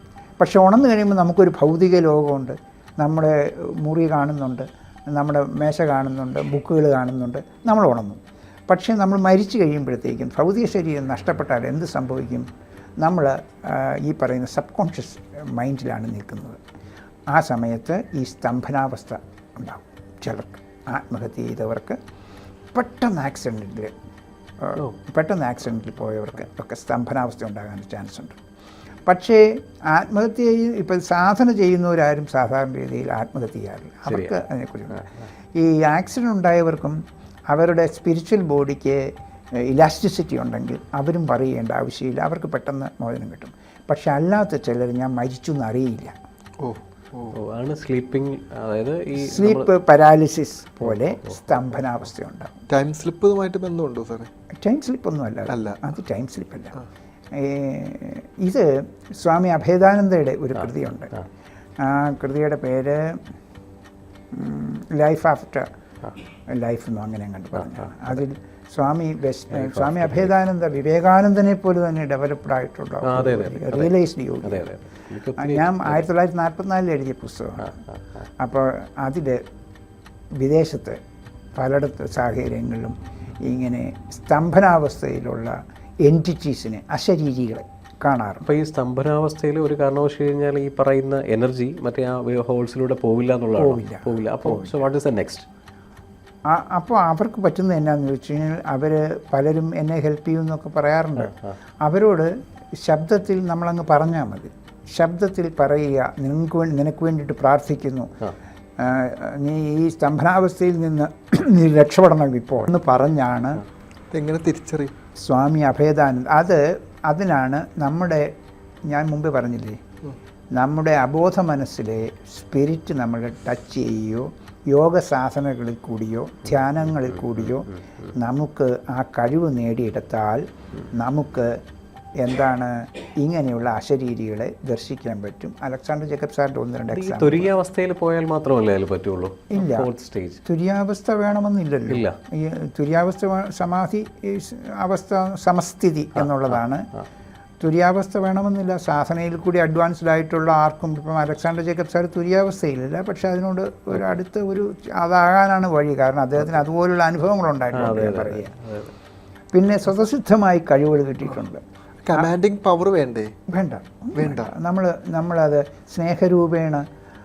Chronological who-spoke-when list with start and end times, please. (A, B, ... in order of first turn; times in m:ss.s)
0:00.4-0:12.5 A
0:13.0-0:16.6 A
0:17.3-0:22.0 A
0:22.7-0:23.9 A
0:24.6-0:28.4 A
0:29.1-0:46.1 A
0:34.1-0:34.4 B
0:46.6-0:47.4 C
0:47.4-0:49.7 B
0:49.2-0:52.6 A
0:51.2-0:51.6 B
0:52.7-0:54.3 C
0:54.6-0:56.8 A
0:55.5-0:55.8 C
0:57.4-1:01.2 A
1:01.8-1:03.2 A
1:04.3-1:05.7 A
1:06.5-1:14.7 A
1:07.9-1:08.2 B
1:09.5-1:10.3 B
1:13.0-1:16.0 B
1:15.4-1:17.8 A
1:18.4-1:19.4 A
1:20.4-1:21.0 A
1:21.6-1:28.5 A
1:28.4-1:35.5 B
1:33.6-1:34.7 A
1:36.5-1:48.1 A
1:41.2-1:41.6 B
1:48.8-1:53.6 A
1:54.1-1:54.9 C
1:55.2-1:58.3 A
1:58.9-1:59.8 A
2:00.6-2:11.6 A
2:12.2-2:17.5 A
2:16.9-2:20.4 B
2:19.5-2:19.9 A
2:20.4-2:26.9 A
2:21.9-2:22.2 B
2:27.6-2:38.5 A
2:37.7-2:38.9 B
2:39.5-2:41.6 A
2:42.1-2:43.3 C
2:43.5-2:46.8 A
2:44.2-2:44.6 C